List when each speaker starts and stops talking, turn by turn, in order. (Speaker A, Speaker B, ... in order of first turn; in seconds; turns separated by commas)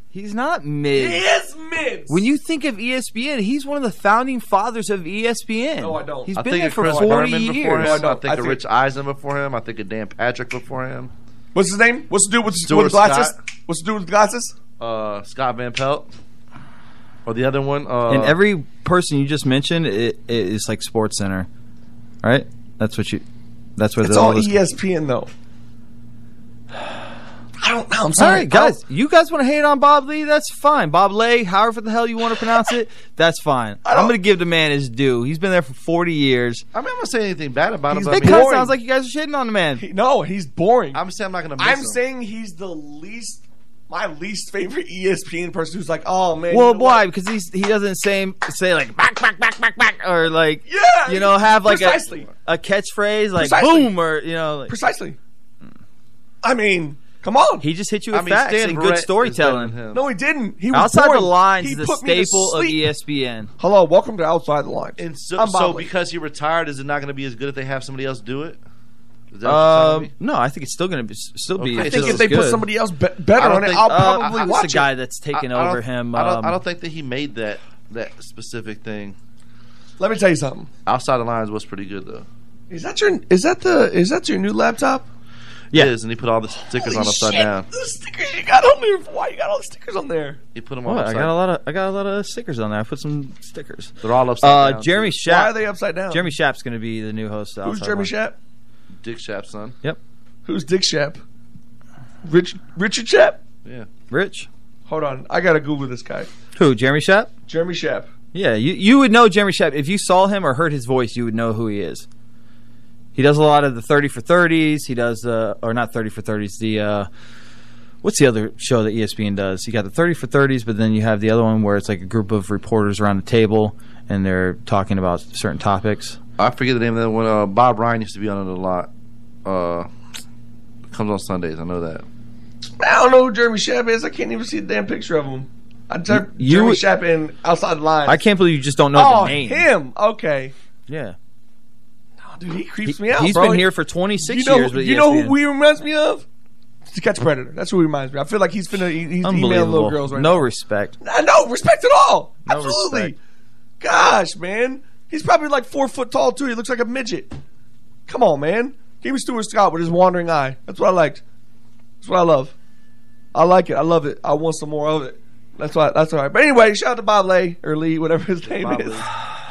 Speaker A: 0.1-1.2, Speaker B: 0.9-2.2, Speaker A: 2.1-8.1, Speaker B: 5.8-8.6, Speaker C: 6.3-11.1, Speaker B: 11.5-14.5, Speaker C: 12.7-13.3, Speaker C: 14.8-16.1, Speaker C: 17.2-18.4, Speaker A: 18.1-21.5, Speaker A: 22.2-23.2, Speaker A: 23.8-24.6, Speaker B: 24.0-25.3, Speaker B: 27.6-28.8, Speaker A: 28.2-36.6, Speaker B: 33.8-34.1, Speaker C: 36.7-38.5, Speaker B: 37.9-38.7, Speaker A: 38.1-39.8, Speaker B: 39.8-41.0, Speaker C: 40.9-42.0, Speaker B: 41.6-47.0, Speaker A: 46.5-54.7, Speaker B: 50.6-52.3, Speaker C: 51.8-52.3, Speaker B: 53.4-53.9, Speaker B: 54.7-55.2, Speaker B: 56.4-57.6, Speaker A: 57.6-59.7, Speaker C: 58.1-60.0, Speaker B: 59.9-62.8, Speaker A: 60.7-63.5, Speaker B: 63.6-65.9, Speaker C: 65.0-68.6, Speaker C: 69.3-70.1, Speaker A: 69.4-72.7, Speaker C: 71.6-72.3, Speaker B: 71.8-74.9, Speaker C: 73.4-74.5, Speaker A: 73.7-76.6, Speaker C: 75.3-79.2, Speaker B: 80.0-80.7, Speaker C: 80.8-82.3, Speaker B: 82.7-85.0, Speaker C: 85.7-87.7, Speaker B: 86.7-90.4, Speaker C: 90.5-91.3, Speaker A: 90.8-95.5, Speaker C: 94.0-95.2, Speaker B: 95.2-96.2, Speaker A: 96.1-98.1, Speaker B: 97.6-98.4, Speaker C: 99.0-99.8, Speaker B: 100.4-101.2, Speaker B: 102.2-103.4, Speaker A: 104.1-104.5, Speaker B: 104.9-106.3, Speaker A: 106.5-107.3, Speaker B: 107.5-108.1, Speaker A: 108.3-112.0, Speaker A: 113.1-117.1, Speaker A: 118.0-126.2, Speaker C: 126.4-128.9, Speaker C: 129.4-129.9, Speaker C: 130.9-132.0, Speaker B: 132.8-138.2, Speaker A: 136.1-136.8, Speaker A: 138.1-139.7, Speaker B: 138.9-140.5, Speaker A: 140.9-141.2, Speaker B: 142.2-143.7, Speaker A: 142.8-145.3, Speaker B: 144.2-146.2, Speaker B: 146.9-150.4, Speaker A: 149.2-150.9, Speaker B: 151.0-153.2, Speaker A: 152.4-153.1, Speaker B: 153.8-157.3, Speaker B: 158.1-161.2, Speaker B: 162.0-162.6, Speaker B: 163.3-169.0, Speaker C: 168.4-169.1